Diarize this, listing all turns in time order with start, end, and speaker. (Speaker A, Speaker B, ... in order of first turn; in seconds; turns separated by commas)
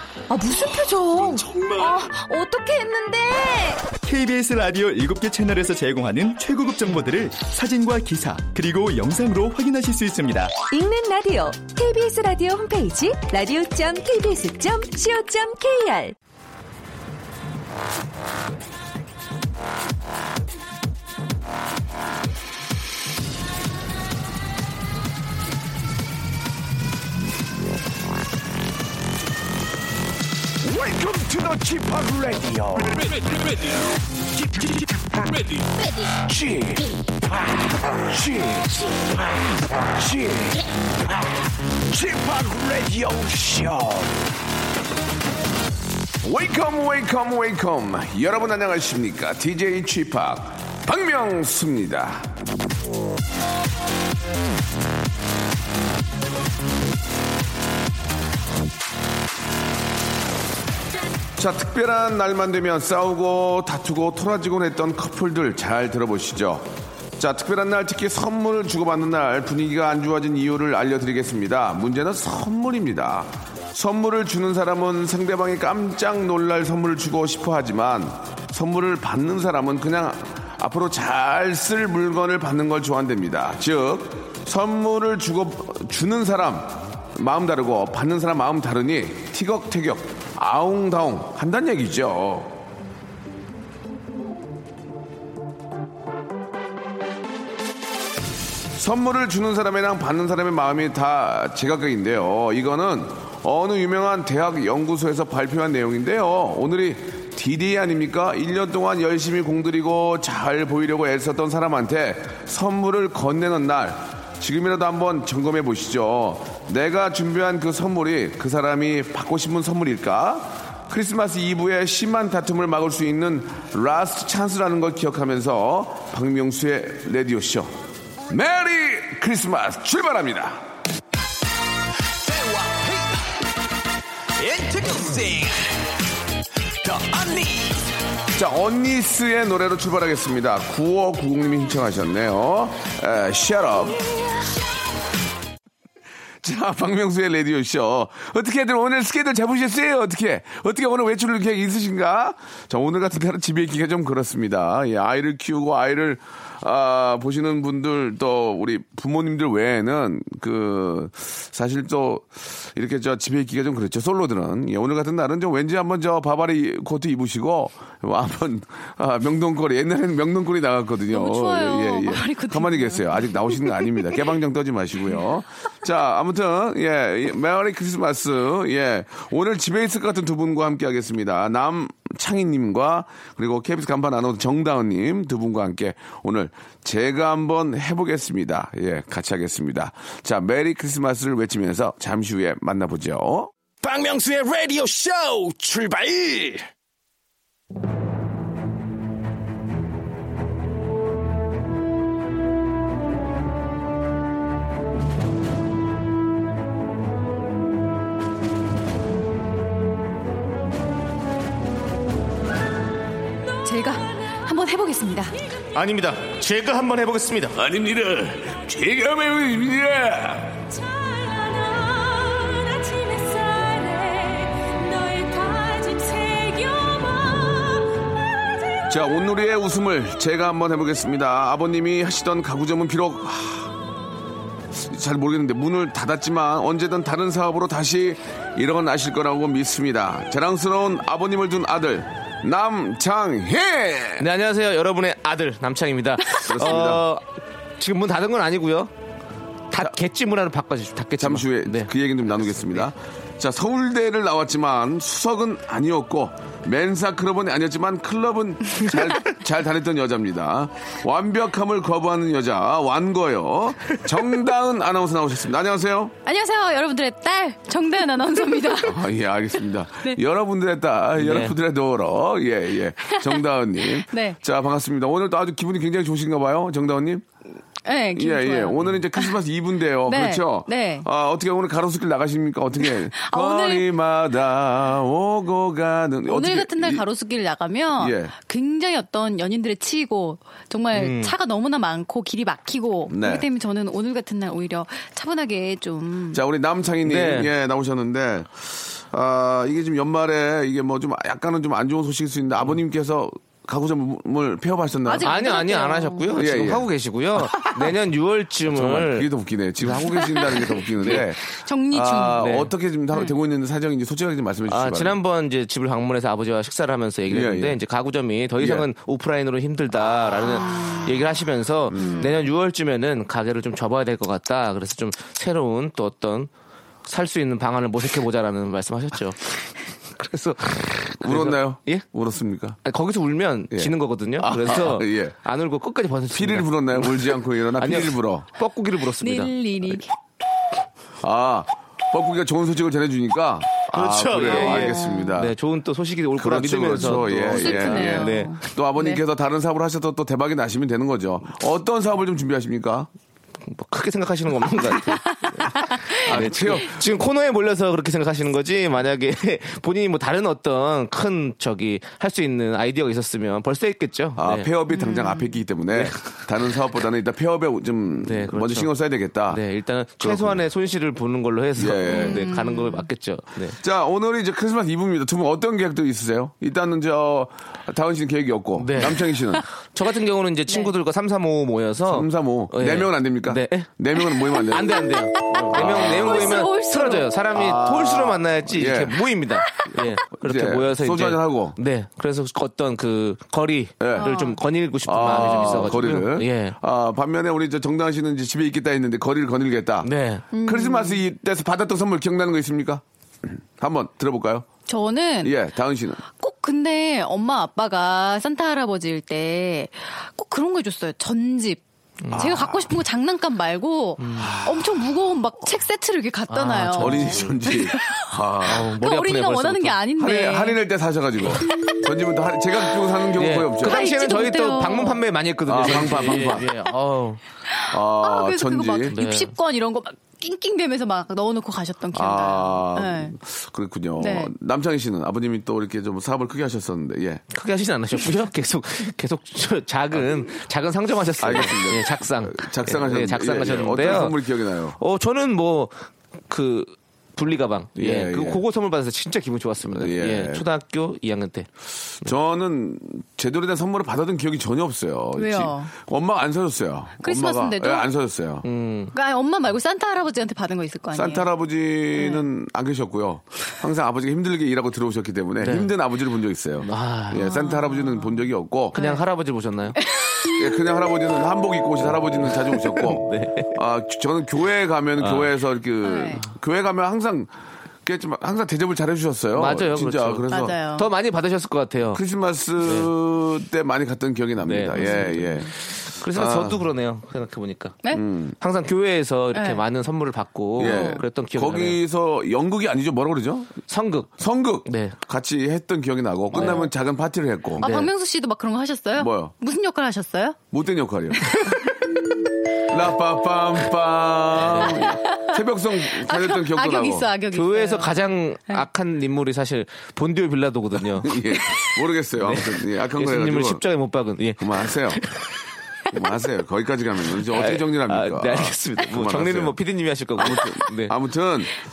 Speaker A: 0.4-1.0, Speaker B: 1.0-2.1, Speaker A: 1.8-3.5, Speaker B: 4.0-10.5, Speaker C: 10.7-16.1, Speaker D: 30.6-33.2, Speaker E: 33.0-33.8, Speaker D: 34.4-35.5, Speaker D: 36.0-44.2, Speaker D: 46.2-52.4, Speaker D: 61.4-92.6, Speaker D: 98.7-127.7, Speaker D: 128.3-130.6, Speaker E: 132.2-133.3, Speaker E: 134.4-135.6, Speaker E: 136.9-137.7, Speaker D: 138.3-144.0, Speaker D: 146.4-193.5, Speaker A: 171.1-174.0, Speaker E: 193.8-196.7, Speaker A: 213.6-215.3, Speaker F: 215.7-217.6, Speaker D: 217.6-220.7, Speaker G: 222.7-227.8, Speaker D: 228.9-233.7, Speaker D: 234.7-244.3, Speaker F: 244.2-247.3, Speaker D: 246.4-247.0, Speaker F: 247.8-248.9, Speaker F: 249.7-251.9, Speaker D: 251.2-266.1, Speaker F: 252.5-252.9, Speaker A: 266.2-269.0, Speaker D: 268.8-277.2, Speaker F: 271.2-271.5, Speaker A: 273.1-274.4, Speaker A: 277.9-279.3, Speaker D: 278.1-287.0, Speaker A: 280.1-281.1, Speaker A: 282.9-283.9, Speaker A: 286.3-296.4, Speaker D: 288.0-288.3, Speaker F: 290.9-291.3, Speaker D: 293.1-293.4, Speaker D: 296.3-305.3, Speaker F: 297.0-297.5, Speaker A: 305.1-306.4, Speaker F: 305.2-309.3, Speaker D: 306.3-307.9, Speaker D: 308.7-315.2, Speaker A: 311.1-312.4, Speaker F: 312.4-312.7, Speaker F: 314.7-326.5, Speaker D: 317.3-317.8, Speaker D: 318.6-318.9, Speaker A: 320.7-321.0, Speaker D: 321.9-322.3, Speaker A: 321.9-322.3, Speaker F: 327.0-329.5, Speaker F: 330.2-332.0, Speaker D: 331.2-332.8, Speaker F: 332.8-337.2, Speaker D: 333.7-335.3, Speaker D: 336.3-338.4, Speaker F: 337.8-340.0, Speaker A: 339.2-340.1, Speaker D: 341.2-345.5, Speaker F: 343.9-348.6, Speaker A: 344.4-345.3, Speaker D: 346.4-353.1, Speaker A: 347.0-349.2, Speaker F: 353.6-364.7, Speaker A: 355.9-356.2, Speaker D: 356.2-357.0, Speaker D: 364.4-369.6, Speaker A: 364.9-365.5, Speaker F: 365.9-366.4, Speaker F: 368.2-368.9, Speaker F: 369.5-373.8, Speaker D: 370.2-370.6, Speaker D: 371.8-372.5, Speaker A: 372.1-373.1, Speaker D: 373.8-379.6, Speaker F: 378.8-383.9, Speaker D: 382.0-386.6, Speaker F: 384.6-396.8, Speaker A: 384.7-387.3, Speaker D: 387.5-389.2, Speaker D: 390.3-391.8, Speaker D: 394.0-394.3, Speaker A: 394.2-394.6, Speaker D: 395.1-404.7, Speaker A: 395.2-395.8, Speaker F: 400.0-400.4, Speaker A: 400.5-401.2, Speaker A: 404.9-405.6, Speaker D: 405.4-406.2, Speaker A: 406.4-420.8, Speaker F: 412.2-412.5, Speaker D: 412.3-412.8, Speaker F: 414.2-414.5, Speaker D: 414.4-415.1, Speaker F: 416.5-417.5, Speaker D: 417.0-418.9, Speaker F: 418.6-420.0, Speaker D: 420.2-424.1, Speaker A: 421.6-422.0, Speaker F: 423.4-427.4, Speaker A: 423.8-425.2, Speaker D: 425.7-426.7, Speaker A: 427.7-433.4, Speaker D: 427.9-429.1, Speaker F: 429.1-429.5, Speaker D: 432.1-437.4, Speaker A: 434.2-434.5, Speaker F: 437.5-451.7, Speaker D: 440.1-440.4, Speaker D: 441.4-445.0, Speaker D: 448.0-448.6, Speaker D: 449.9-450.6, Speaker D: 452.2-458.6, Speaker A: 455.4-455.9, Speaker A: 457.2-458.1, Speaker F: 458.6-459.1, Speaker A: 459.1-461.5, Speaker D: 461.1-469.0, Speaker A: 462.1-462.4, Speaker F: 465.6-465.9, Speaker F: 466.8-467.6, Speaker A: 467.5-468.4, Speaker F: 468.9-470.0, Speaker A: 468.9-469.2, Speaker A: 470.0-470.6, Speaker D: 470.6-477.5, Speaker F: 472.0-473.8, Speaker F: 475.2-475.5, Speaker A: 476.0-476.4, Speaker D: 478.0-480.8, Speaker F: 479.6-482.2, Speaker A: 480.5-481.1, Speaker D: 482.1-485.7, Speaker F: 482.8-483.1, Speaker F: 484.6-488.0, Speaker D: 486.3-486.8, Speaker D: 488.1-488.6, Speaker F: 488.6-492.0, Speaker A: 489.5-489.8, Speaker D: 490.8-493.8, Speaker A: 490.8-491.2, Speaker F: 493.9-494.3, Speaker D: 494.4-497.9, Speaker F: 494.9-495.2, Speaker F: 496.5-496.9, Speaker A: 496.6-496.8, Speaker A: 497.8-500.6, Speaker F: 497.8-498.1, Speaker D: 499.2-499.5, Speaker D: 500.7-501.7, Speaker D: 502.9-507.3, Speaker F: 504.6-504.9, Speaker A: 505.2-508.1, Speaker F: 507.5-515.4, Speaker D: 511.2-513.8, Speaker D: 514.6-515.2, Speaker D: 516.1-519.8, Speaker F: 517.5-521.1, Speaker D: 520.4-521.8